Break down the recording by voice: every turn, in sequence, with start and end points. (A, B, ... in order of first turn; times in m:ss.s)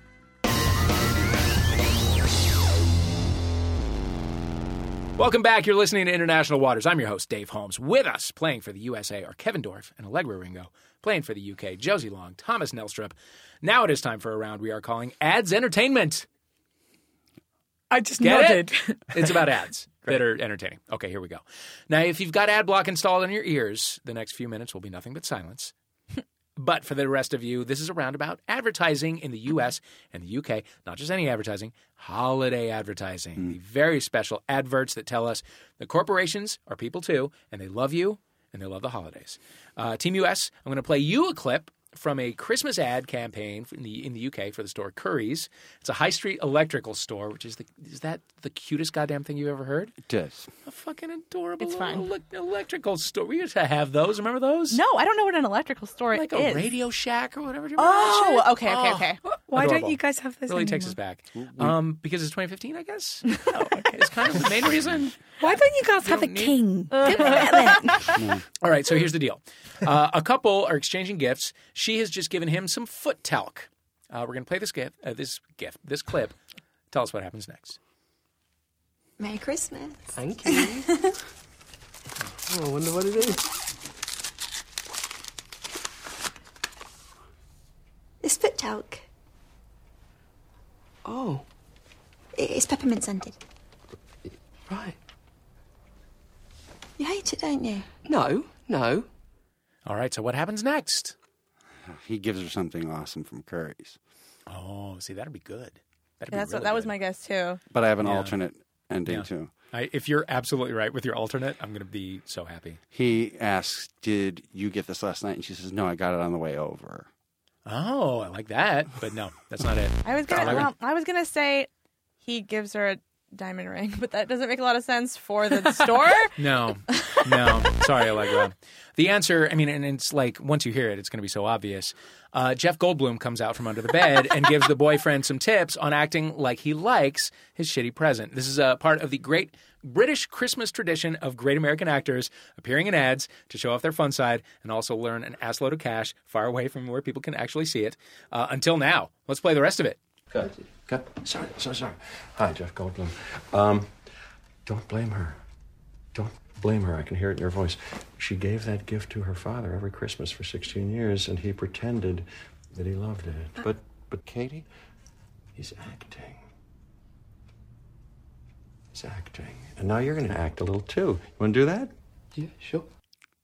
0:05.2-0:16.3 A
0:17.9-0:19.0 B
0:18.2-0:25.7 A
0:26.6-0:50.0 A
0:50.1-0:50.5 C
0:50.7-0:54.8 A
0:51.6-0:52.0 D
0:54.7-0:56.7 D
0:56.1-1:05.2 A
0:57.8-0:59.2 D
0:59.2-1:01.0 B
1:01.4-1:01.8 C
1:03.5-1:04.4 B
1:05.4-1:08.1 B
1:06.0-1:06.6 A
1:06.9-1:08.1 D
1:07.1-1:07.4 A
1:08.1-1:08.4 C
1:08.6-1:16.4 A
1:16.9-1:17.8 A
1:19.2-1:21.1 E
1:20.2-1:20.9 F
1:22.5-1:23.4 F
1:28.2-1:29.0 E
1:31.0-1:31.4 F
1:32.4-1:33.4 E
1:34.7-1:35.0 F
1:37.0-1:37.9 E
1:38.0-1:39.1 F
1:39.9-1:41.2 A
1:41.9-1:44.0 C
1:44.5-1:46.9 A
1:46.3-1:47.6 D
1:47.7-1:49.5 C
1:48.0-1:48.4 A
1:49.1-1:52.8 A
1:52.9-1:57.1 C
1:57.7-2:00.7 A
2:00.0-2:01.7 D
2:02.2-2:06.3 D
2:06.4-2:30.0 A
2:30.3-2:33.9 G
2:34.6-2:35.4 G
2:36.1-2:44.6 G
2:45.6-2:46.4 G
2:48.9-2:51.9 G
2:52.4-2:52.9 F